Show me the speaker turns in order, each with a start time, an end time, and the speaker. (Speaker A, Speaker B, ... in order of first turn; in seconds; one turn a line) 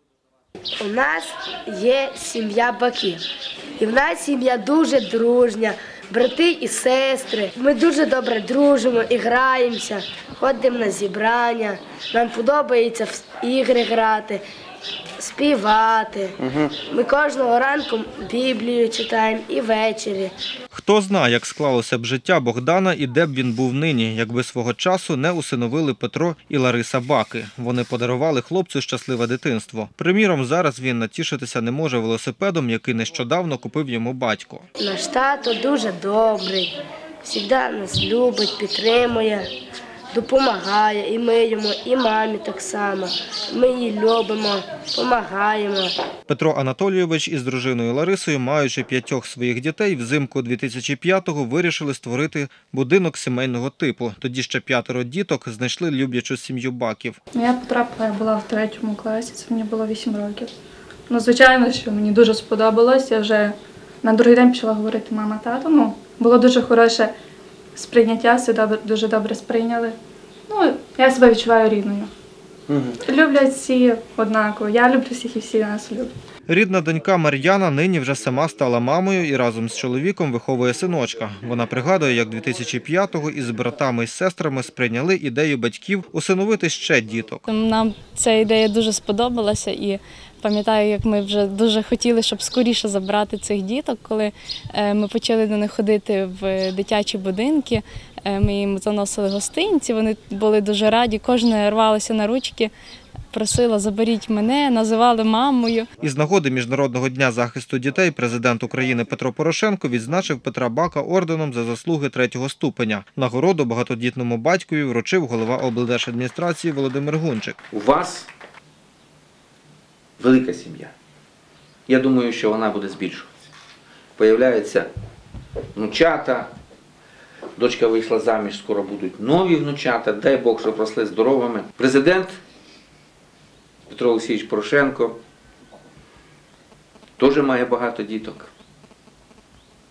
Speaker A: 0.8-3.2
Speaker A: 3.8-14.4
Speaker A: 15.2-20.3
Speaker B: 20.7-34.6
Speaker A: 34.8-36.7
Speaker A: 37.2-39.5
Speaker A: 40.1-45.9
Speaker B: 46.3-57.2
Speaker C: 57.3-60.5
Speaker C: 61.1-67.1
Speaker C: 67.8-70.0
Speaker C: 70.5-72.1
Speaker C: 73.0-76.1
Speaker B: 76.5-87.4
Speaker D: 87.5-102.7
Speaker D: 103.3-105.9
Speaker B: 106.0-117.6
Speaker E: 117.7-118.3
Speaker E: 120.2-120.9
Speaker E: 121.9-123.3
Speaker E: 124.2-124.9
Speaker E: 125.8-126.5
Speaker E: 127.6-132.4
Speaker E: 133.9-135.2
Speaker E: 137.2-138.5